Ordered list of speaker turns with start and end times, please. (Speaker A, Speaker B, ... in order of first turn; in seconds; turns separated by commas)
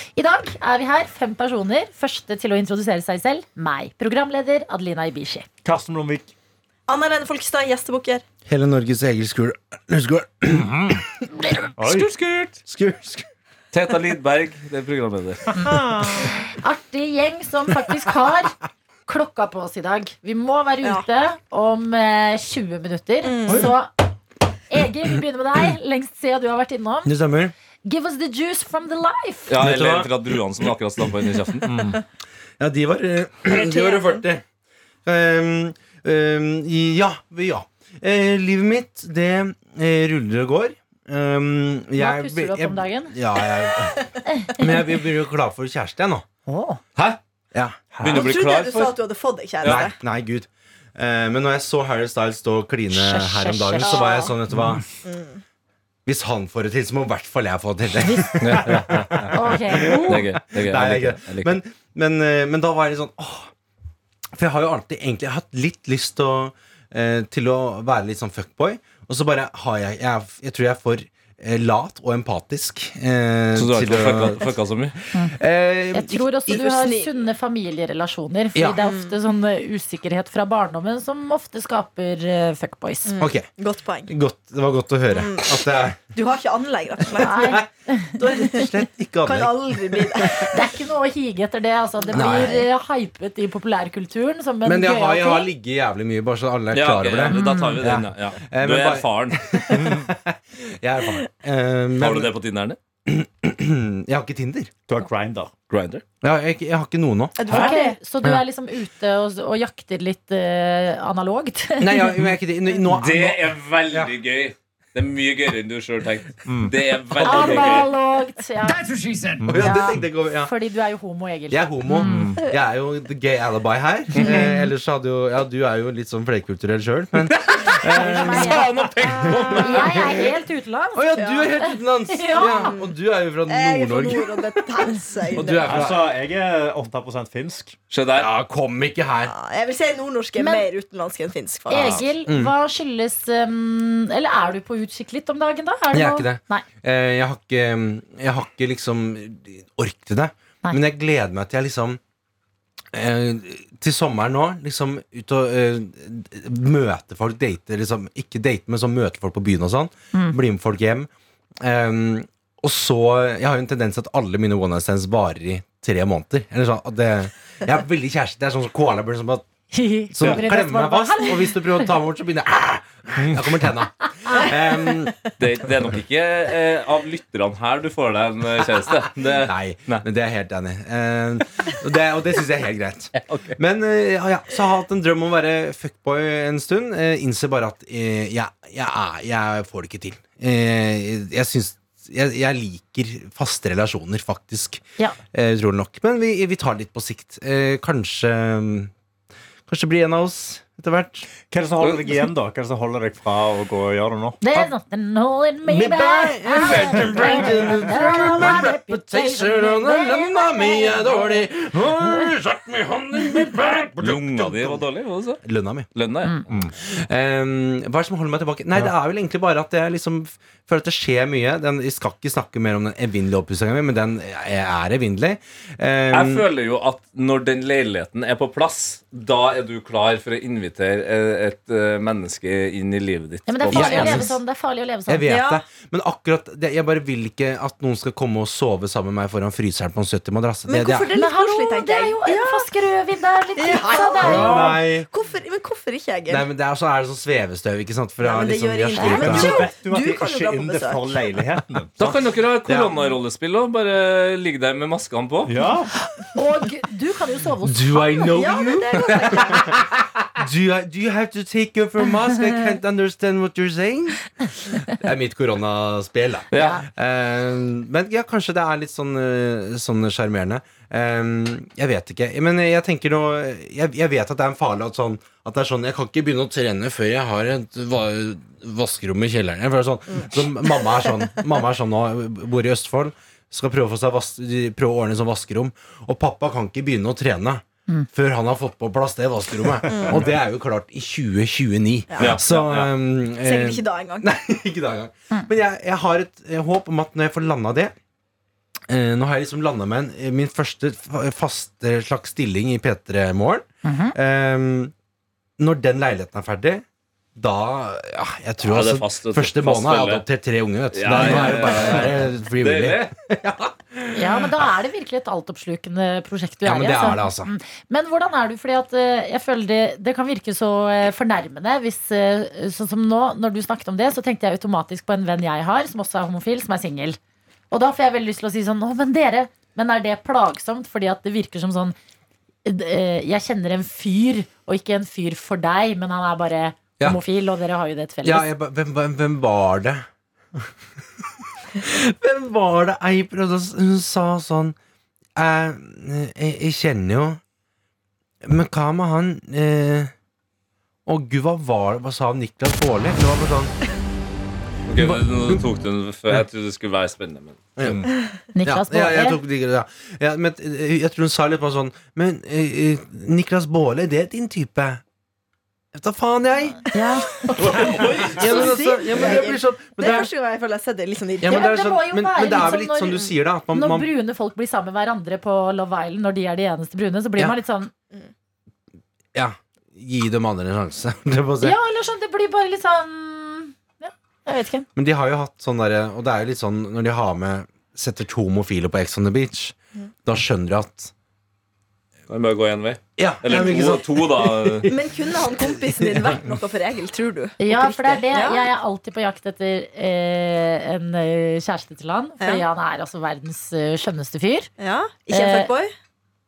Speaker A: 0.2-5.5, Speaker B: 5.6-6.3, Speaker C: 6.9-8.2, Speaker D: 8.5-11.0, Speaker B: 10.7-10.9, Speaker B: 11.8-12.5, Speaker D: 12.7-13.3, Speaker E: 13.7-15.6, Speaker B: 15.6-16.3, Speaker A: 16.2-18.6, Speaker A: 19.1-23.9, Speaker C: 23.2-23.7, Speaker A: 24.7-27.1, Speaker D: 27.1-27.5, Speaker A: 27.8-29.5, Speaker E: 29.5-31.8, Speaker D: 29.6-30.6, Speaker B: 31.7-32.0, Speaker D: 32.6-34.4, Speaker C: 33.5-34.2, Speaker D: 35.0-46.2, Speaker A: 42.0-43.2, Speaker A: 44.3-44.8, Speaker A: 46.5-46.8, Speaker D: 47.5-48.2, Speaker B: 47.9-48.3, Speaker E: 48.0-49.0, Speaker C: 48.1-50.0, Speaker E: 49.6-49.9, Speaker D: 49.6-54.9, Speaker A: 52.9-54.1, Speaker C: 53.8-54.3, Speaker C: 55.0-55.4, Speaker D: 56.1-63.5, Speaker A: 58.0-58.4, Speaker E: 58.4-59.3, Speaker A: 59.3-60.3, Speaker E: 60.1-61.6, Speaker D: 64.4-74.6, Speaker E: 73.5-75.0, Speaker D: 75.1-76.5, Speaker A: 75.9-83.2, Speaker C: 76.5-77.2, Speaker D: 78.5-78.8, Speaker C: 78.8-79.1, Speaker C: 83.1-84.1, Speaker D: 83.2-83.5, Speaker D: 84.1-86.0, Speaker C: 85.1-87.5, Speaker A: 87.2-88.5, Speaker D: 87.2-87.7, Speaker D: 88.2-90.5, Speaker C: 88.3-88.6, Speaker C: 89.2-90.5, Speaker A: 90.4-95.5, Speaker C: 92.1-92.4, Speaker D: 92.1-92.7, Speaker D: 94.6-102.3, Speaker E: 96.7-99.9, Speaker A: 97.3-97.8, Speaker E: 102.0-102.8, Speaker D: 103.1-104.7, Speaker B: 104.9-105.5, Speaker E: 105.7-106.0, Speaker D: 106.2-108.4, Speaker C: 107.4-108.0, Speaker A: 107.5-112.2, Speaker D: 111.8-114.1, Speaker E: 113.0-117.9, Speaker B: 116.5-116.7, Speaker A: 117.2-118.9, Speaker B: 119.3-119.9, Speaker D: 119.4-120.5, Speaker A: 119.5-122.4, Speaker D: 121.5-128.6, Speaker B: 122.0-122.4, Speaker E: 124.2-124.5, Speaker A: 124.3-124.7, Speaker E: 127.2-130.3, Speaker A: 127.9-128.7, Speaker D: 129.3-129.9, Speaker A: 129.3-132.8, Speaker D: 130.9-134.3, Speaker C: 131.2-131.5, Speaker C: 132.4-132.9, Speaker C: 133.5-135.7, Speaker D: 135.3-136.1, Speaker B: 135.6-137.8, Speaker E: 137.9-138.3, Speaker D: 138.2-139.3, Speaker C: 139.3-142.1, Speaker A: 140.4-140.7, Speaker A: 141.7-146.7, Speaker B: 141.7-142.0, Speaker D: 142.3-142.5, Speaker D: 145.9-152.0, Speaker D: 152.9-169.4, Speaker A: 169.7-171.9, Speaker D: 170.1-175.3, Speaker E: 175.4-180.1, Speaker D: 179.2-198.9, Speaker E: 183.1-183.6, Speaker D: 199.7-201.3, Speaker B: 201.5-204.4, Speaker E: 201.8-202.1, Speaker A: 204.4-211.4, Speaker D: 205.7-214.8, Speaker B: 206.8-207.4, Speaker E: 214.0-215.4, Speaker D: 215.4-215.9, Speaker E: 215.9-216.5, Speaker D: 216.8-226.5, Speaker E: 226.1-234.3, Speaker A: 233.5-235.3, Speaker D: 233.7-234.4, Speaker D: 235.1-241.1, Speaker C: 235.3-235.7, Speaker C: 240.7-242.7, Speaker A: 241.2-244.7, Speaker C: 243.6-246.5, Speaker D: 244.2-245.1, Speaker B: 244.2-244.7, Speaker D: 246.3-249.7, Speaker C: 248.2-251.2, Speaker A: 249.0-249.3, Speaker B: 249.1-252.2, Speaker E: 252.0-255.5, Speaker D: 252.7-253.0, Speaker B: 255.5-255.9, Speaker A: 256.2-258.4, Speaker D: 257.6-297.9, Speaker C: 258.3-259.7, Speaker E: 266.5-266.8, Speaker C: 289.9-290.2, Speaker C: 292.1-292.4, Speaker E: 292.2-292.9, Speaker C: 293.4-294.3, Speaker D: 298.9-304.9, Speaker A: 303.8-304.1, Speaker D: 305.6-306.8, Speaker D: 307.4-314.6, Speaker E: 308.7-310.2, Speaker E: 310.9-313.1, Speaker A: 314.1-327.2, Speaker D: 316.6-317.5, Speaker A: 327.7-331.9, Speaker A: 332.6-338.5, Speaker D: 338.2-340.0, Speaker D: 341.8-344.8, Speaker D: 345.4-347.4, Speaker D: 348.4-350.1, Speaker D: 351.1-353.7, Speaker E: 354.9-358.1, Speaker D: 355.0-355.7, Speaker D: 357.8-358.1, Speaker A: 358.6-359.4, Speaker D: 358.6-365.0, Speaker D: 365.9-366.9, Speaker A: 366.9-367.3, Speaker C: 367.3-371.7, Speaker E: 367.6-368.6, Speaker D: 367.6-370.3, Speaker D: 371.4-374.1, Speaker A: 371.5-377.9, Speaker D: 379.4-381.8, Speaker A: 381.6-384.9, Speaker D: 385.0-391.1, Speaker E: 392.3-394.9, Speaker D: 393.2-396.3, Speaker C: 393.5-393.9, Speaker C: 394.9-398.7, Speaker A: 397.6-404.7, Speaker C: 402.4-402.6, Speaker C: 404.8-405.9, Speaker A: 405.3-405.7